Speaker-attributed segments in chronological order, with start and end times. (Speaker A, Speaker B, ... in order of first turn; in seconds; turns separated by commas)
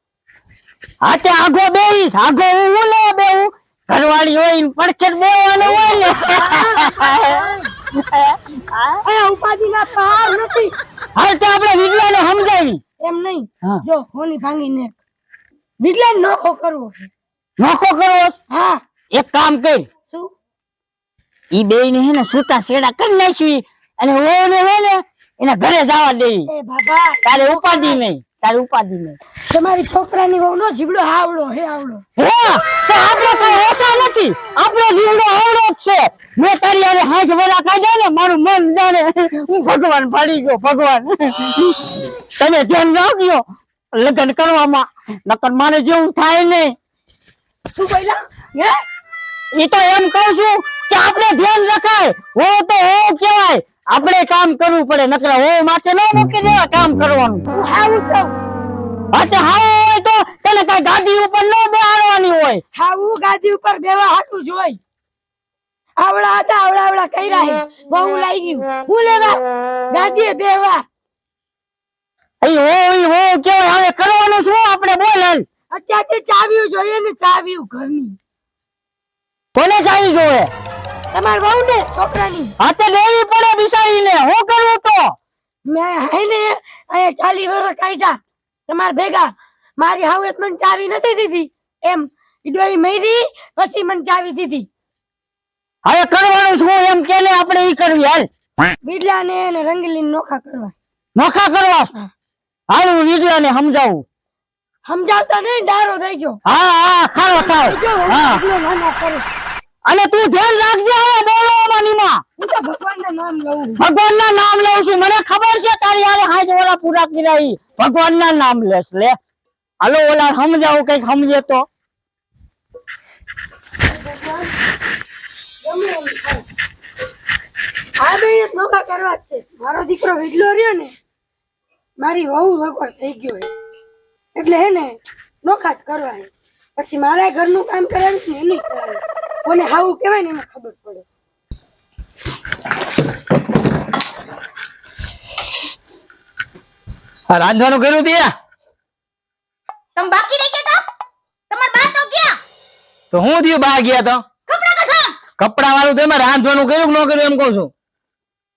Speaker A: 1.0-9.0, Speaker B: 5.7-7.7, Speaker B: 9.0-10.7, Speaker A: 11.2-12.8, Speaker B: 13.0-14.9, Speaker B: 15.8-17.1, Speaker A: 17.6-18.4, Speaker B: 18.5-18.8, Speaker A: 19.1-19.9, Speaker A: 21.5-26.5, Speaker B: 26.5-28.0, Speaker A: 27.2-29.2, Speaker B: 29.5-32.0, Speaker A: 32.2-46.8, Speaker B: 47.7-48.8, Speaker A: 49.6-57.4, Speaker B: 57.5-58.3, Speaker A: 59.1-62.6, Speaker B: 62.7-64.8, Speaker B: 66.0-70.8, Speaker A: 72.4-75.5, Speaker B: 75.7-78.2, Speaker A: 79.5-80.5, Speaker B: 81.1-82.5, Speaker A: 82.6-85.2, Speaker B: 85.7-94.7, Speaker A: 95.8-98.3, Speaker B: 98.8-100.8, Speaker A: 101.2-101.9, Speaker A: 102.7-104.0, Speaker B: 104.8-106.4, Speaker A: 106.4-108.4, Speaker B: 107.3-109.2, Speaker A: 109.8-112.2, Speaker B: 112.4-113.8, Speaker A: 113.8-119.2, Speaker A: 119.8-121.6, Speaker B: 124.0-124.5, Speaker B: 125.6-126.4, Speaker B: 128.0-130.9, Speaker B: 132.0-133.5, Speaker B: 134.3-141.0, Speaker C: 147.3-148.3, Speaker D: 149.9-150.8, Speaker D: 151.5-152.4, Speaker C: 153.1-154.2, Speaker D: 154.5-155.2, Speaker C: 155.4-157.7